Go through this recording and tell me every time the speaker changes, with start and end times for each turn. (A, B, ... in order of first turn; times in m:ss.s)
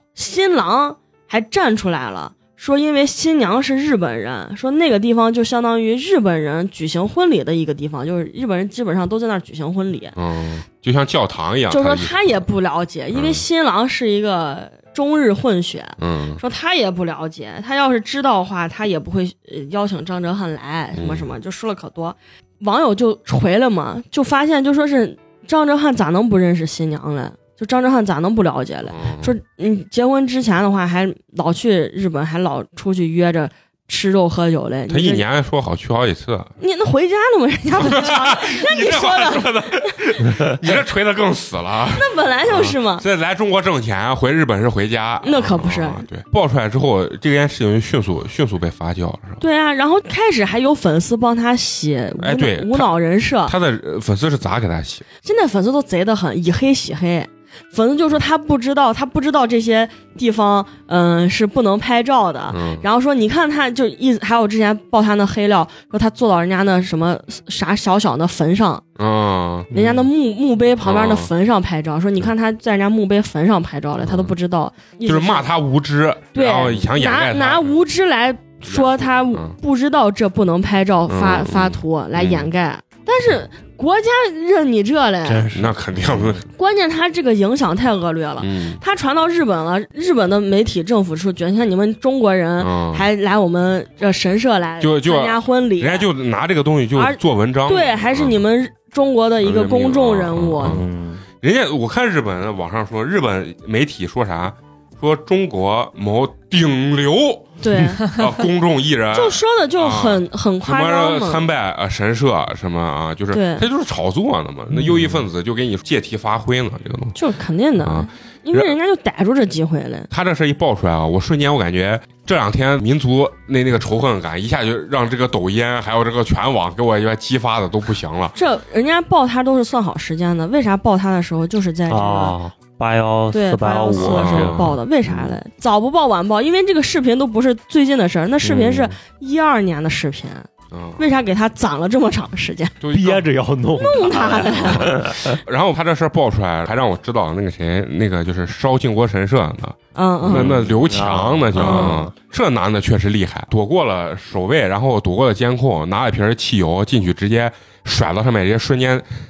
0:00.1-0:10.1 A
0:10.2-0:12.4 B
0:11.7-0:35.2 A
0:13.1-0:13.4 B
0:16.0-0:16.4 B
0:20.9-0:21.3 B
0:28.9-0:29.3 B
0:34.9-0:36.5 B
0:36.6-0:39.9 A
0:37.8-0:49.4 B
0:41.9-0:43.0 A
0:45.2-0:46.0 A
0:49.4-0:53.6 A
0:52.2-0:52.9 B
0:53.4-0:55.1 B
0:55.2-1:08.8 A
1:02.5-1:02.8 B
1:09.0-1:09.7 B
1:09.7-1:10.1 C
1:09.7-1:15.5 A
1:10.8-1:11.3 B
1:14.0-1:14.3 B
1:15.0-1:17.8 B
1:16.3-1:25.5 A
1:18.7-1:19.6 B
1:21.1-1:22.5 B
1:25.2-1:26.4 C
1:25.5-1:26.4 B
1:26.5-1:36.1 A
1:28.4-1:28.8 B
1:32.6-1:33.1 B
1:34.8-1:38.4 B
1:36.9-1:40.8 A
1:39.4-1:40.8 B
1:40.6-1:41.2 C
1:41.4-1:57.2 B
1:47.6-1:48.3 A
1:49.1-1:51.5 A
1:53.3-1:53.6 A
1:54.8-1:55.2 C
1:57.1-2:00.1 A
1:57.8-1:58.7 B
2:00.1-2:08.4 B
2:08.3-2:12.4 A
2:11.9-2:15.4 C
2:13.3-2:22.8 A
2:14.0-2:14.8 B
2:18.4-2:18.9 C
2:20.7-2:21.0 B
2:22.8-2:23.3 B
2:22.9-2:25.4 C
2:23.8-2:24.9 A
2:23.9-2:39.1 B
2:29.9-2:30.6 A
2:30.2-2:32.1 C
2:31.6-2:32.0 A